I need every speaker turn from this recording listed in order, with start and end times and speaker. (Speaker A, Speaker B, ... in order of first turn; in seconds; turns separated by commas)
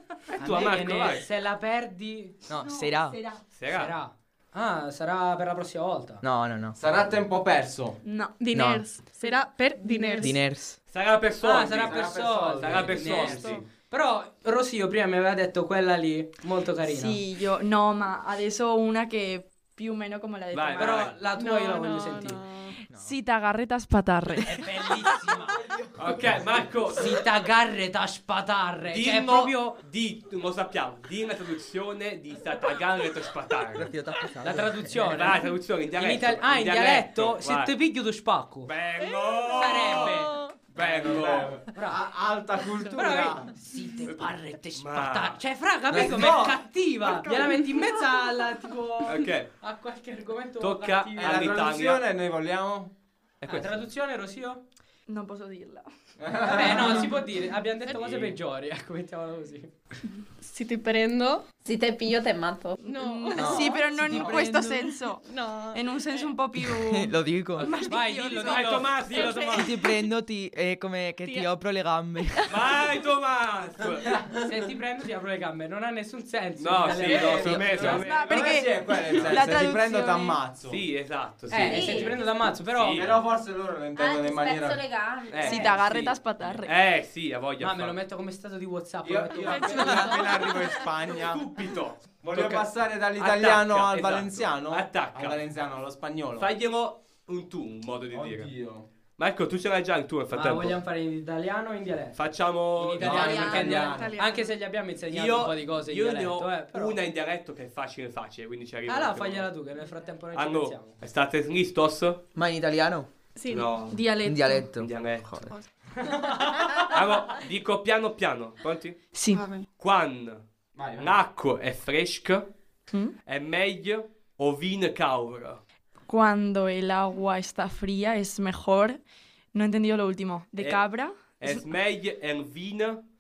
Speaker A: 0.4-1.3, Speaker B: 0.4-2.4, Speaker C: 2.5-3.2, Speaker D: 2.6-3.4, Speaker A: 3.5-4.0, Speaker B: 3.7-6.2, Speaker C: 6.2-6.8, Speaker E: 6.8-8.0, Speaker D: 8.0-8.3, Speaker F: 8.4-10.4, Speaker C: 8.5-8.8, Speaker D: 9.2-10.3, Speaker C: 10.2-10.8, Speaker A: 10.9-12.1, Speaker B: 11.4-17.2, Speaker E: 11.7-13.4, Speaker A: 12.6-13.7, Speaker D: 16.9-21.1, Speaker A: 20.5-21.2, Speaker B: 20.8-22.4, Speaker F: 21.3-22.8, Speaker C: 22.9-23.2, Speaker D: 22.9-25.0, Speaker B: 24.4-25.6, Speaker A: 26.0-27.2, Speaker B: 26.9-29.8, Speaker A: 28.9-33.9, Speaker C: 33.8-35.1, Speaker B: 34.4-38.7, Speaker A: 35.1-37.7, Speaker A: 38.7-41.6, Speaker F: 39.0-40.6, Speaker B: 39.5-41.1, Speaker E: 40.7-43.5, Speaker B: 41.7-42.1, Speaker F: 42.7-43.0, Speaker B: 42.9-51.5, Speaker A: 44.8-45.4, Speaker E: 45.9-47.6, Speaker A: 46.0-46.3, Speaker A: 49.0-49.5, Speaker A: 50.6-52.0, Speaker E: 51.2-52.9, Speaker A: 53.4-53.9, Speaker B: 53.5-54.6, Speaker D: 55.1-55.9, Speaker E: 56.2-57.1, Speaker B: 56.4-59.7, Speaker A: 57.9-58.4, Speaker F: 60.4-61.5, Speaker G: 61.6-62.8, Speaker F: 62.8-66.3, Speaker D: 62.9-68.9, Speaker C: 63.4-63.7, Speaker E: 64.1-64.5, Speaker C: 66.7-67.7, Speaker B: 67.9-69.1, Speaker A: 68.3-69.8, Speaker F: 69.0-69.9, Speaker C: 69.5-72.7, Speaker F: 71.2-71.5, Speaker A: 72.5-74.2, Speaker E: 74.1-74.4, Speaker B: 74.4-78.1, Speaker A: 76.6-78.4, Speaker E: 77.0-80.8, Speaker D: 77.8-80.4, Speaker A: 80.6-83.2, Speaker B: 81.5-83.1, Speaker G: 81.7-82.1, Speaker E: 82.9-84.8, Speaker G: 84.0-85.8, Speaker A: 85.3-88.0, Speaker D: 85.4-86.7, Speaker B: 87.6-90.2, Speaker E: 89.0-91.5, Speaker F: 89.5-90.9, Speaker A: 91.1-95.4, Speaker E: 92.2-96.5, Speaker A: 96.4-98.5, Speaker E: 98.1-98.9, Speaker A: 99.2-100.8, Speaker B: 100.3-107.0, Speaker A: 102.2-103.6, Speaker E: 103.0-104.2, Speaker F: 103.5-104.5, Speaker A: 105.1-109.5, Speaker B: 108.9-111.0, Speaker A: 110.3-112.2, Speaker C: 112.3-113.1, Speaker F: 113.3-113.8, Speaker A: 113.5-114.0, Speaker D: 113.9-114.7, Speaker C: 114.2-115.5, Speaker A: 114.8-115.3, Speaker F: 115.5-116.4, Speaker B: 116.0-116.9, Speaker A: 116.7-119.0, Speaker D: 119.1-119.5, Speaker F: 119.3-119.7, Speaker A: 119.8-120.4, Speaker E: 120.8-121.2, Speaker A: 121.0-122.5, Speaker A: 123.2-125.6, Speaker D: 126.1-131.7, Speaker A: 131.4-133.1